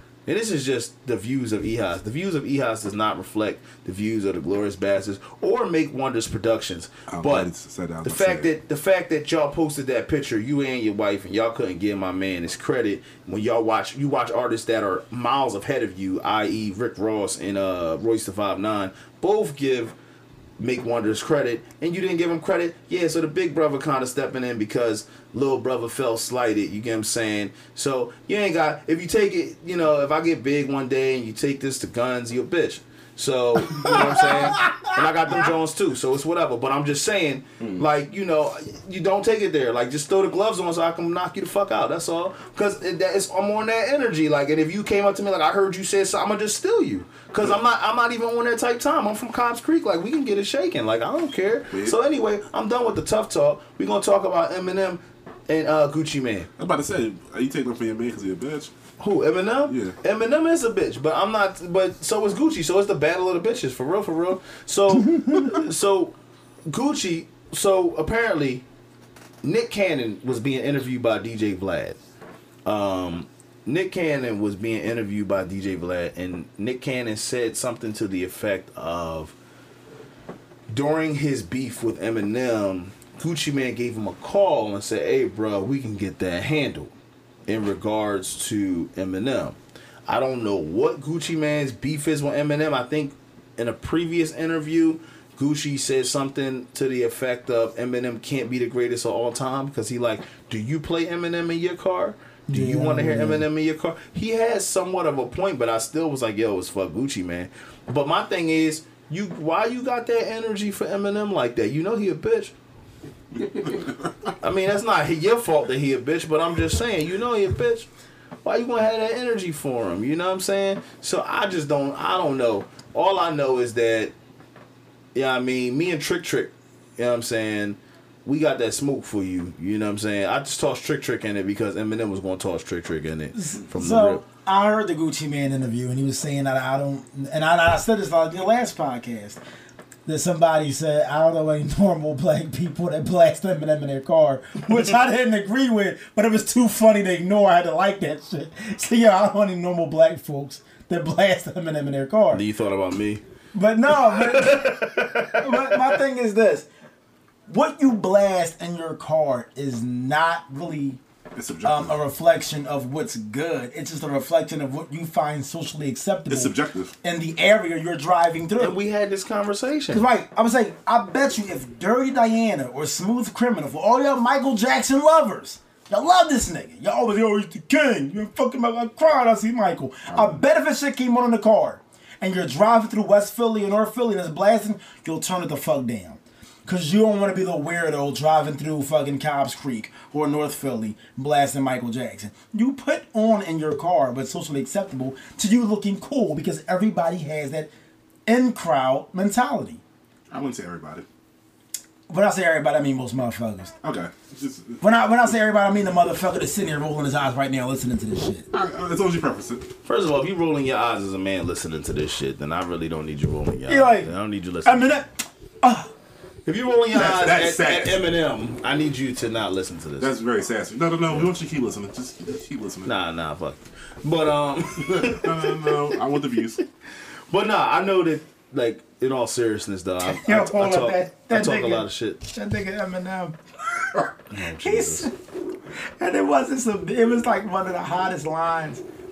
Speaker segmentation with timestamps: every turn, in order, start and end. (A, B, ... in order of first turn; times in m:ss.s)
0:00.3-0:07.5 A
0:07.1-0:08.5 B
0:08.0-0:20.0 A
0:20.6-0:56.5 A
0:33.9-0:34.9 C
0:56.6-0:58.7 B
0:59.0-1:06.2 A
0:59.7-1:00.0 B
1:05.1-1:05.5 C
1:06.7-1:08.6 A
1:09.4-1:12.0 A
1:12.7-1:19.4 A
1:20.7-1:26.9 A
1:27.5-1:52.5 A
1:42.5-1:43.5 C
1:54.4-1:57.9 A
1:58.4-2:04.1 A
2:05.2-2:14.2 A
2:13.3-2:19.4 C
2:20.1-2:32.4 C
2:32.3-2:33.2 A
2:33.5-2:36.7 C
2:34.1-2:35.8 A
2:37.5-2:41.0 C
2:41.4-2:42.0 B
2:41.6-2:48.8 C
2:46.3-2:46.9 B
2:48.6-2:50.0 A
2:49.9-3:17.7 C
3:18.3-3:19.8 C
3:20.3-3:21.1 B
3:22.1-3:23.8 C
3:23.8-3:24.8 B
3:24.8-3:28.5 C
3:28.5-3:29.7 B
3:29.8-3:34.9 A
3:33.7-3:34.1 C
3:34.6-3:35.9 C
3:36.5-3:40.1 A
3:36.9-3:38.1 B
3:40.0-3:42.9 B
3:42.8-3:46.0 A
3:44.9-3:46.6 B
3:47.3-3:52.2 A
3:50.0-3:55.2 C
3:54.3-3:55.1 A
3:55.7-3:58.8 C